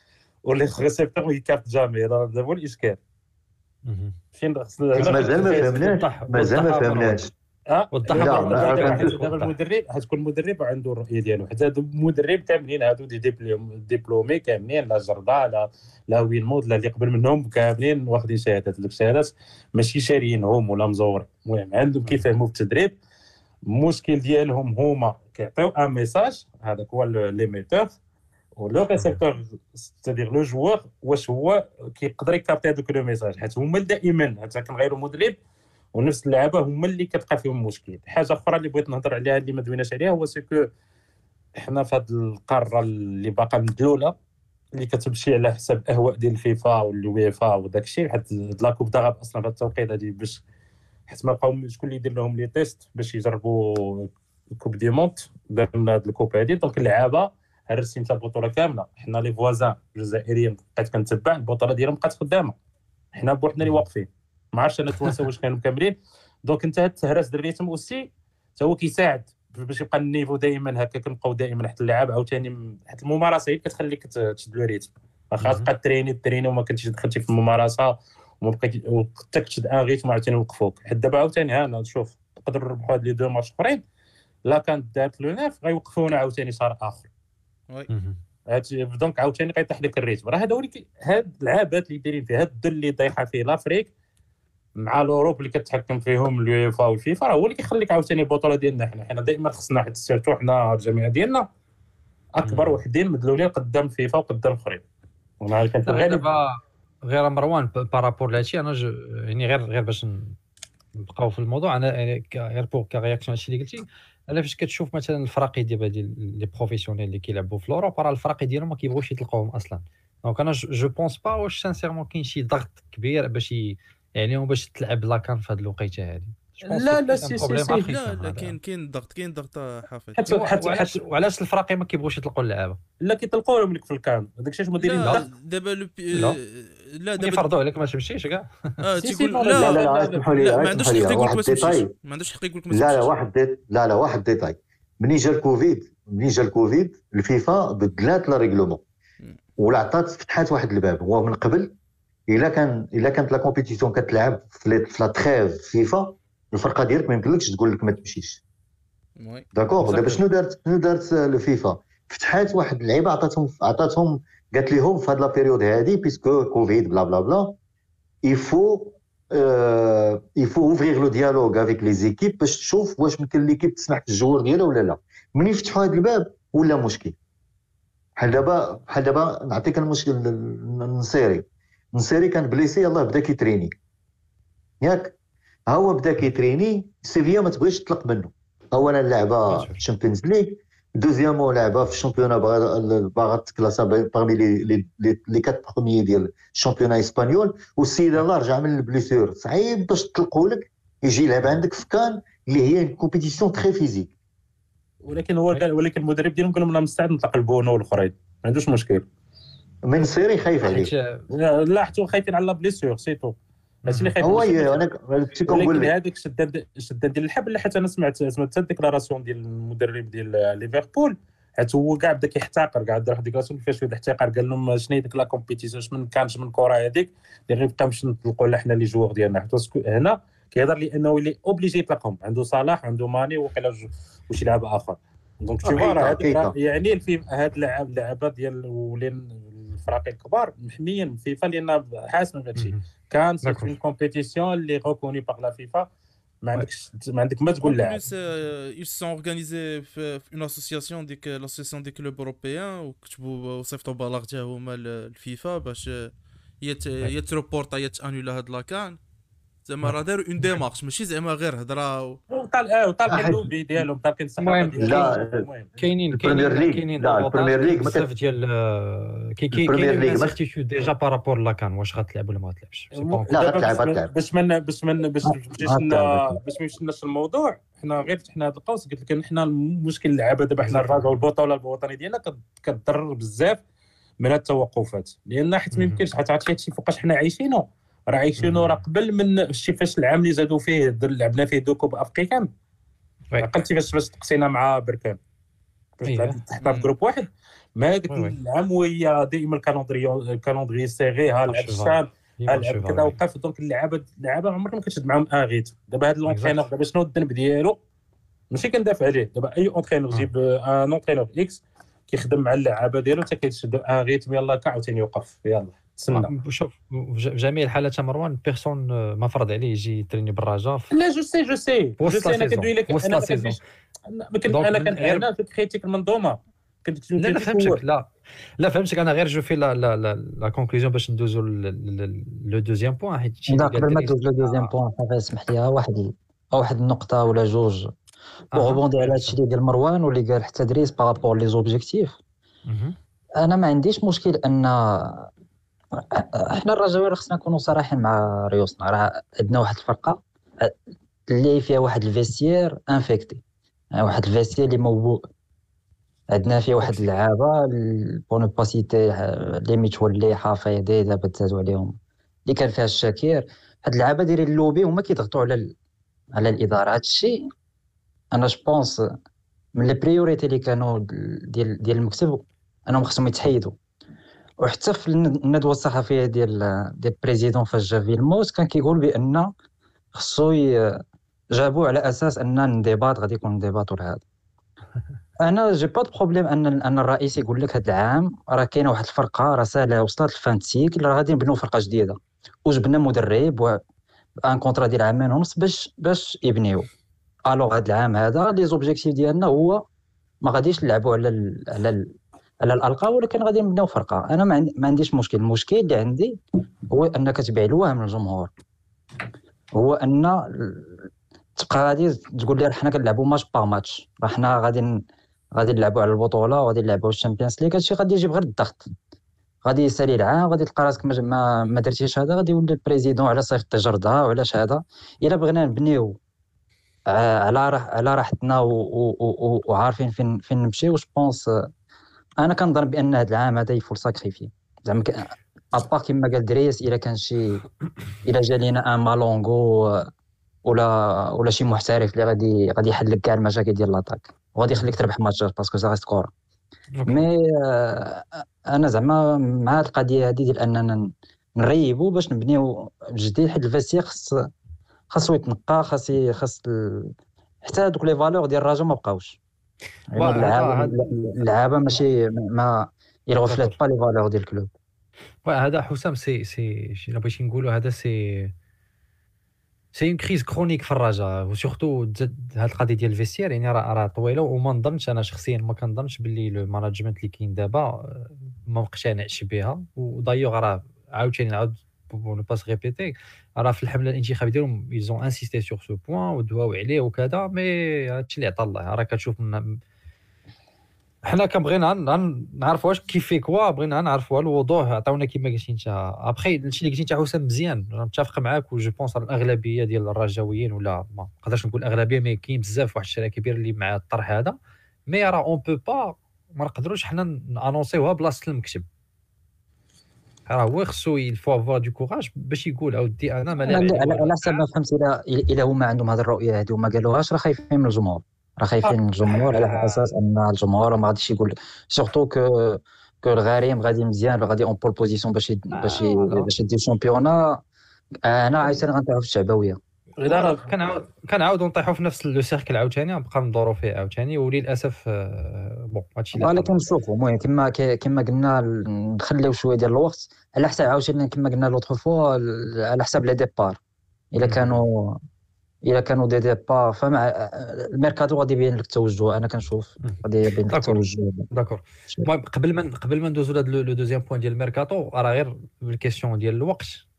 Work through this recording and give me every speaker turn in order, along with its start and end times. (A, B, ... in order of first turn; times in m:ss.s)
0:00.4-0:03.0 A
0:03.8-0:04.2 B
0:04.3-0:06.0 A
0:05.0-0:07.3 C
0:05.3-0:07.2 B
0:07.7-0:23.0 A
0:07.9-0:09.5 B
0:08.1-0:09.1 C
0:23.7-0:28.0 A
0:28.6-0:35.4 A
0:35.9-0:40.7 A
0:41.6-0:44.1 A
0:44.7-0:50.4 A
0:51.1-1:02.5 A
1:03.1-1:23.8 A
1:15.4-1:15.7 B
1:24.4-1:27.1 A
1:27.9-1:28.2 B
1:28.5-1:33.9 A
1:34.8-1:41.4 A
1:42.3-1:44.8 A
1:42.4-1:42.8 B
1:45.4-1:46.2 A
1:45.8-1:50.4 B
1:51.0-2:08.6 B
2:06.6-2:07.9 A
2:07.6-2:10.2 D
2:10.2-2:11.0 A
2:10.2-2:12.8 B
2:13.0-2:15.3 A
2:14.8-2:17.4 D
2:17.2-2:18.8 B
2:18.8-2:23.1 D
2:19.0-2:20.3 A
2:19.5-2:21.9 C
2:22.7-2:28.8 C
2:29.6-2:31.7 C
2:32.3-2:38.4 C
2:39.2-2:40.2 D
2:39.5-2:47.6 C
2:48.2-2:57.2 C
2:58.2-3:03.7 C
3:04.8-3:05.1 C
3:05.7-3:24.1 C
3:09.5-3:09.8 B
3:25.0-3:29.0 A
3:29.8-3:30.9 C
3:30.6-3:31.2 B
3:31.3-3:33.3 A
3:33.8-3:34.1 B
3:33.9-3:34.8 A
3:34.2-3:35.9 C
3:35.5-4:05.9 A
3:55.6-3:56.5 C
4:02.6-4:02.8 B
4:03.4-4:03.7 B
4:06.4-4:08.0 A
4:07.6-4:19.0 D
4:19.6-4:22.2 D
4:19.8-4:20.6 B
4:22.3-4:25.7 A
4:23.1-4:23.5 C
4:24.4-4:25.2 B
4:24.8-4:25.4 C
4:25.8-4:33.3 B
4:26.1-4:28.0 C
4:29.5-4:30.4 C
4:32.9-4:43.6 A
4:33.3-4:34.1 C
4:35.2-4:36.4 E
4:40.6-4:41.2 B
4:44.2-4:52.5 A
4:45.7-4:46.0 B
4:48.4-4:48.8 B
4:53.4-4:55.2 A
4:56.0-5:07.8 A
4:56.0-4:56.4 B
4:56.6-4:56.9 D
4:58.1-4:58.3 B
5:01.5-5:03.1 B
5:06.2-5:06.6 B
5:08.5-5:16.3 A
5:16.1-5:20.9 B
5:20.9-5:27.8 A
5:22.0-5:23.6 B
5:24.5-5:25.2 B
5:27.2-5:34.7 B
5:33.5-5:37.9 E
5:38.5-5:39.3 B
5:38.5-5:42.2 E
5:42.7-5:43.0 B
5:43.4-5:45.3 E
5:46.0-5:50.7 E
5:51.3-5:53.4 E
5:54.0-5:55.3 E
5:56.3-6:05.7 E
5:56.8-5:57.1 B
6:06.4-6:07.5 E
6:08.3-6:09.1 E
6:09.7-6:13.8 E
6:14.6-6:19.5 E
6:20.1-6:21.0 E
6:21.5-6:24.2 E
6:25.4-6:33.8 E
6:34.4-6:36.9 E
6:37.5-6:39.8 E
6:40.4-6:46.4 E
6:46.9-6:48.5 E
6:49.7-6:55.0 E
6:55.6-6:58.9 E
6:59.6-7:06.2 E
7:07.1-7:11.7 E
7:12.4-7:17.6 E
7:18.2-7:20.1 E
7:20.6-7:26.3 E
7:26.9-7:27.2 B
7:27.1-7:34.5 E
7:35.1-7:37.1 E
7:37.6-7:39.4 E
7:40.1-7:44.7 E
7:40.2-7:40.9 B
7:43.4-7:43.8 B
7:45.4-7:48.5 B
7:49.9-8:09.8 B
8:11.2-8:24.6 B
8:25.1-8:28.8 B
8:30.5-8:34.6 B
8:33.6-8:47.6 E
8:38.8-8:40.1 B
8:45.7-8:46.5 B
8:48.2-8:49.8 E
8:50.2-8:50.7 A
8:50.3-8:56.8 B
8:56.4-9:03.8 E
9:04.3-9:05.2 E
9:04.4-9:04.8 B
9:05.8-9:11.5 E
9:10.0-9:17.0 B